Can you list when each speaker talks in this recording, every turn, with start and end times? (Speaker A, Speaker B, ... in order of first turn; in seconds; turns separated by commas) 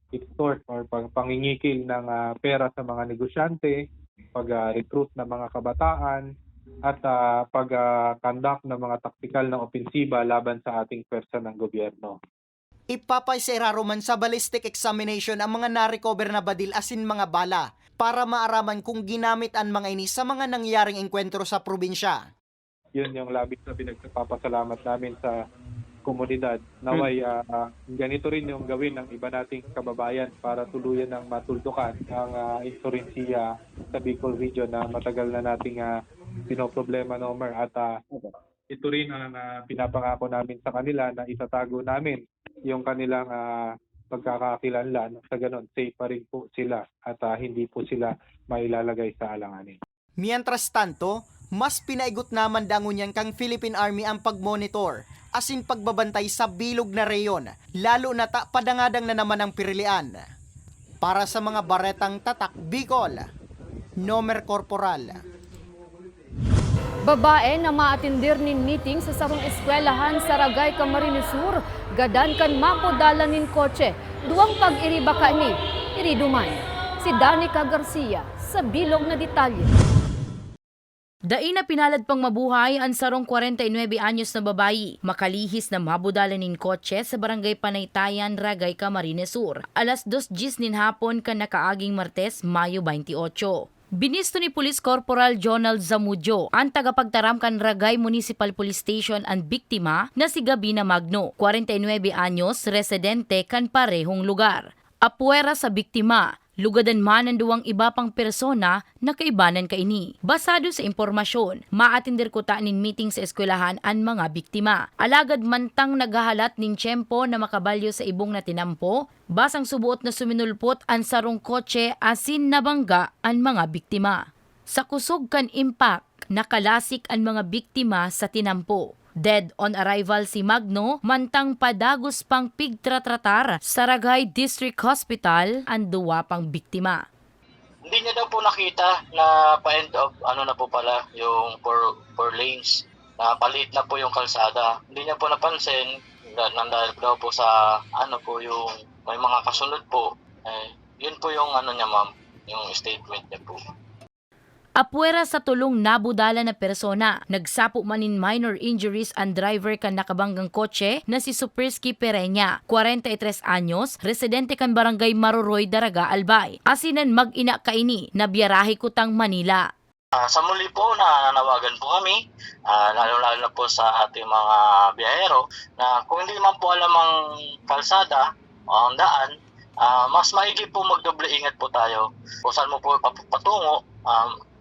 Speaker A: 0.1-3.8, Speaker A: 4.3-6.2, Speaker A: 6.9-12.2, Speaker B: 12.9-22.2, Speaker A: 23.0-25.3, Speaker A: 26.1-35.9, Speaker A: 36.5-37.9, Speaker A: 38.7-43.4, Speaker A: 44.1-49.8, Speaker B: 50.2-60.2, Speaker B: 61.0-63.3, Speaker B: 64.0-65.2, Speaker C: 67.0-79.7, Speaker D: 81.3-137.1, Speaker E: 137.9-153.6, Speaker D: 154.8-169.7, Speaker E: 170.2-177.1, Speaker E: 177.7-184.3